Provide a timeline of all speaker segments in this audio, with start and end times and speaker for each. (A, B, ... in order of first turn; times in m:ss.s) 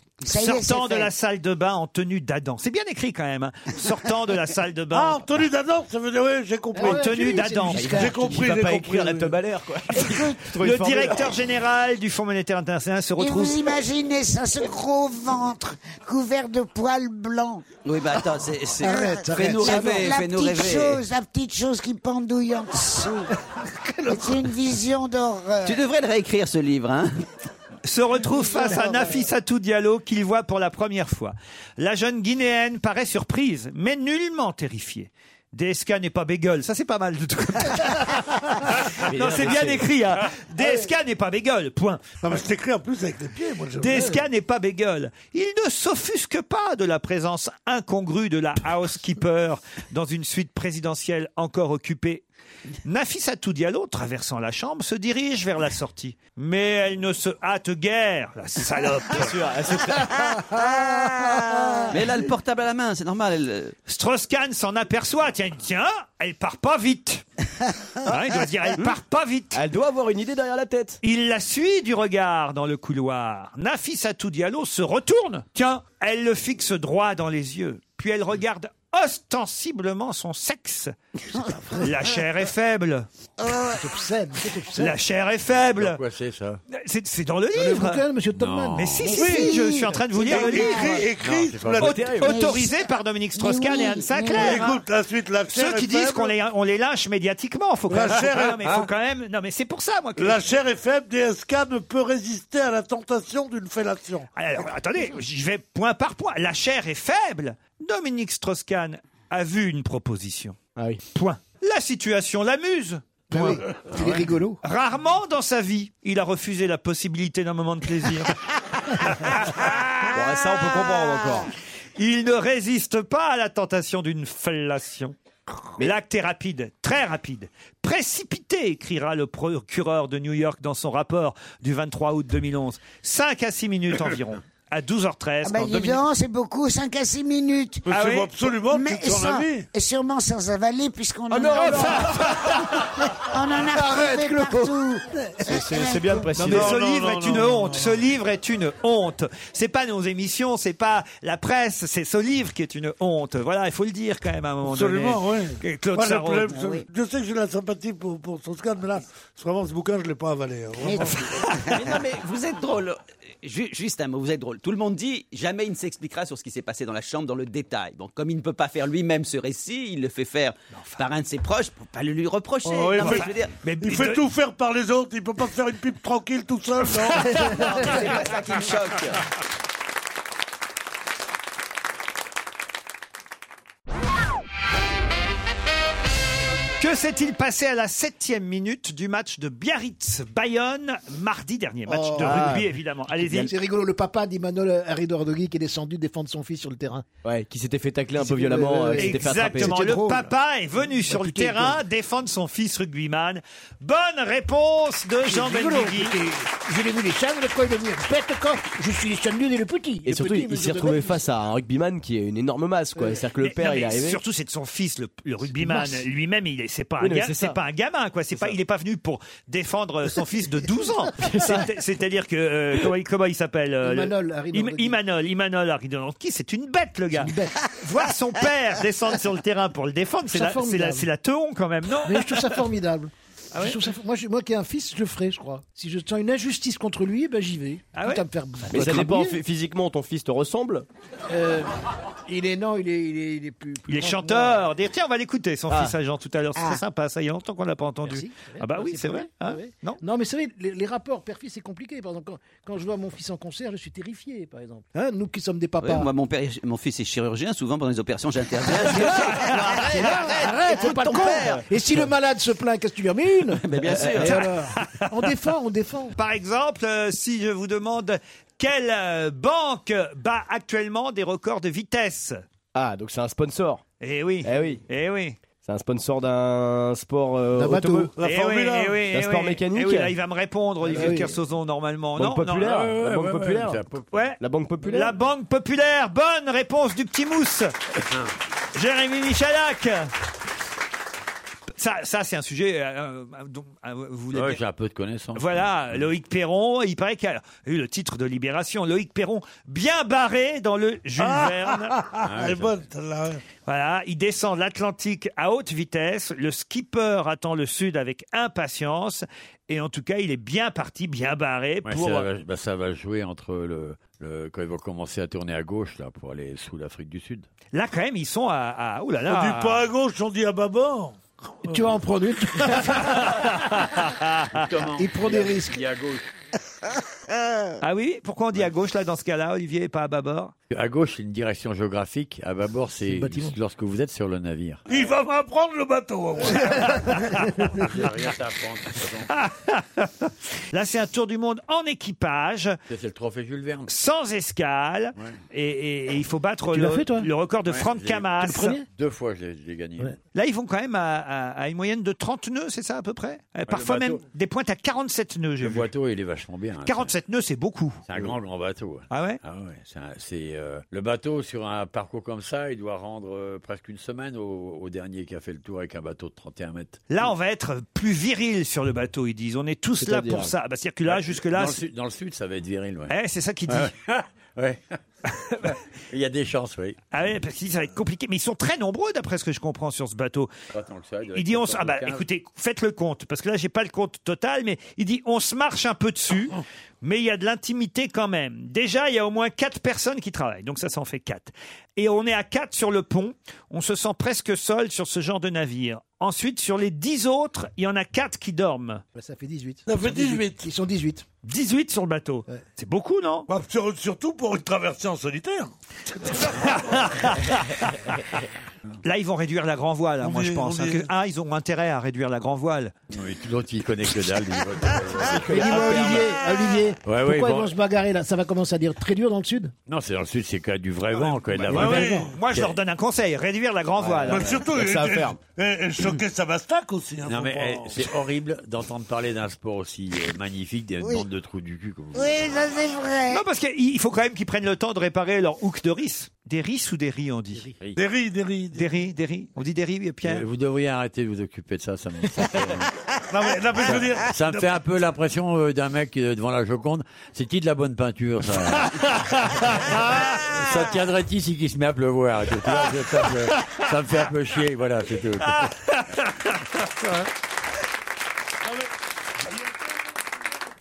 0:00.2-0:01.1 A
0:00.3-0:05.2 B
0:04.9-0:07.1 C
0:06.7-0:08.4 D
0:06.8-0:07.9 B
0:07.7-0:11.4 E
0:07.9-0:09.4 C
0:09.9-0:10.5 A
0:10.6-0:13.6 B
0:13.2-0:17.7 A
0:17.8-0:21.0 F
0:18.8-0:20.2 D
0:18.8-0:23.3 A
0:23.9-0:24.3 D
0:24.1-0:25.8 A
0:25.6-0:27.2 F
0:27.8-0:42.2 B
0:28.5-0:29.2 A
0:38.9-0:40.0 E
0:42.2-0:44.2 C
0:43.8-0:52.2 B
0:52.8-0:59.4 B
0:59.1-1:00.4 E
1:00.4-1:02.0 A
1:01.9-1:03.8 F
1:03.9-1:07.2 B
1:08.0-1:09.6 B
1:09.5-1:11.0 E
1:11.0-1:20.9 B
1:21.3-1:21.9 A
1:21.8-1:23.1 B
1:23.4-1:24.0 A
1:23.7-1:25.0 D
1:24.8-1:26.0 B
1:25.6-1:26.6 G
1:26.7-1:28.0 B
1:27.5-1:28.9 D
1:28.3-1:29.2 G
1:28.7-1:31.0 B
1:29.0-1:31.1 A
1:30.2-1:32.1 C
1:31.2-1:32.0 G
1:31.8-1:34.8 B
1:31.8-1:32.4 E
1:32.2-1:34.7 A
1:34.3-1:36.4 C
1:35.5-1:40.4 B
1:37.9-1:38.9 C
1:40.2-1:44.3 C
1:44.4-1:50.6 B
1:50.8-1:51.0 E
1:51.1-1:53.6 B
1:53.3-1:54.6 D
1:54.6-1:58.4 B
1:59.0-2:00.0 B
2:00.1-2:01.5 E
2:02.0-2:05.1 B
2:05.8-2:16.0 B
2:15.4-2:17.9 A
2:17.9-2:19.7 C
2:17.9-2:18.3 B
2:18.7-2:22.4 A
2:21.3-2:22.1 E
2:21.6-2:22.2 B
2:23.2-2:26.5 A
2:23.7-2:25.4 D
2:25.5-2:26.8 E
2:26.4-2:28.0 C
2:26.4-2:36.5 B
2:34.6-2:41.5 C
2:36.5-2:36.9 A
2:40.8-2:42.0 A
2:41.7-2:53.5 F
2:50.7-2:51.0 B
2:52.7-2:57.9 C
2:53.0-2:54.2 B
2:57.1-2:58.2 B
2:57.2-2:58.0 D
2:57.6-2:59.2 F
3:06.8-3:13.5 B
3:11.9-3:12.6 D
3:12.2-3:13.5 E
3:13.5-3:17.1 D
3:17.2-3:19.9 E
3:18.2-3:21.8 D
3:19.0-3:26.2 B
3:25.2-3:31.2 D
3:30.0-3:34.2 E
3:33.0-3:33.2 D
3:33.4-3:52.5 B
3:35.7-3:36.0 D
3:37.0-3:37.6 E
3:41.2-3:41.7 E
3:43.8-3:45.0 D
3:47.2-3:47.6 D
3:50.3-3:51.1 D
3:52.0-3:59.4 D
3:53.5-3:53.8 B
3:58.0-3:58.2 B
3:58.7-4:00.9 E
4:01.3-4:01.7 D
4:02.3-4:04.7 D
4:03.9-4:10.0 B
4:05.7-4:06.0 E
4:06.6-4:06.8 A
4:08.1-4:16.1 D
4:15.8-4:21.7 F
4:19.7-4:26.1 D
4:20.8-4:21.6 E
4:23.6-4:24.5 F
4:23.8-4:24.3 E
4:24.2-4:25.0 B
4:26.2-4:32.4 B
4:32.7-4:33.8 E
4:34.0-4:35.4 B
4:34.4-4:34.8 E
4:35.6-4:38.1 E
4:37.5-4:38.1 D
4:38.2-4:39.0 C
4:38.2-4:42.7 B
4:39.1-4:40.2 E
4:40.9-4:41.2 E
4:40.9-4:41.4 D
4:42.2-4:43.8 E
4:42.6-4:44.2 G
4:44.1-4:47.7 B
4:44.4-4:45.2 E
4:48.8-4:50.1 B
4:51.8-4:54.6 B
4:54.3-4:56.1 G
4:55.4-5:02.0 B
5:01.2-5:03.4 C
5:02.2-5:02.8 G
5:03.6-5:12.3 B
5:11.8-5:17.5 G
5:17.7-5:19.8 B
5:19.3-5:21.8 C
5:21.6-5:23.2 D
5:22.7-5:24.7 B
5:24.5-5:26.3 G
5:25.0-5:25.8 D
5:27.8-5:30.5 B
5:30.7-5:34.8 G
5:33.1-5:33.6 D
5:34.9-5:37.1 C
5:36.6-5:37.7 B
5:37.6-5:39.3 G
5:39.3-5:42.8 B
5:42.9-5:43.9 G
5:43.9-5:48.8 B
5:46.7-5:47.3 D
5:47.7-5:50.2 G
5:48.4-5:48.8 D
5:50.3-5:55.9 B
5:53.7-5:54.2 G
5:55.6-5:57.1 G
5:56.8-5:58.0 B
5:58.1-6:07.0 G
5:59.1-5:59.4 B
6:07.1-6:11.8 B
6:10.0-6:10.5 E
6:11.1-6:13.2 G
6:13.1-6:13.9 B
6:13.7-6:15.0 G
6:15.4-6:15.7 B
6:15.6-6:17.0 G
6:17.1-6:20.5 B
6:20.7-6:22.3 G
6:21.4-6:39.0 B
6:39.2-6:41.2 D
6:39.9-6:40.7 C
6:41.4-6:43.5 B
6:43.5-6:45.7 C
6:46.3-6:48.2 B
6:49.0-6:52.9 B
6:50.2-6:51.1 C
6:53.1-6:56.2 G
6:55.3-6:56.2 E
6:55.5-6:59.7 D
6:57.0-6:57.7 G
6:59.9-7:02.8 G
7:01.5-7:02.3 C
7:01.6-7:04.5 B
7:04.0-7:05.4 E
7:04.3-7:08.0 C
7:07.3-7:12.4 G
7:11.0-7:11.3 A
7:12.1-7:13.4 A
7:13.3-7:17.7 B
7:18.0-7:18.9 C
7:18.7-7:20.4 B
7:20.2-7:22.9 G
7:23.3-7:24.7 C
7:23.8-7:29.1 G
7:28.8-7:30.4 B
7:30.4-7:35.7 G
7:33.6-7:33.8 B
7:35.4-7:36.6 B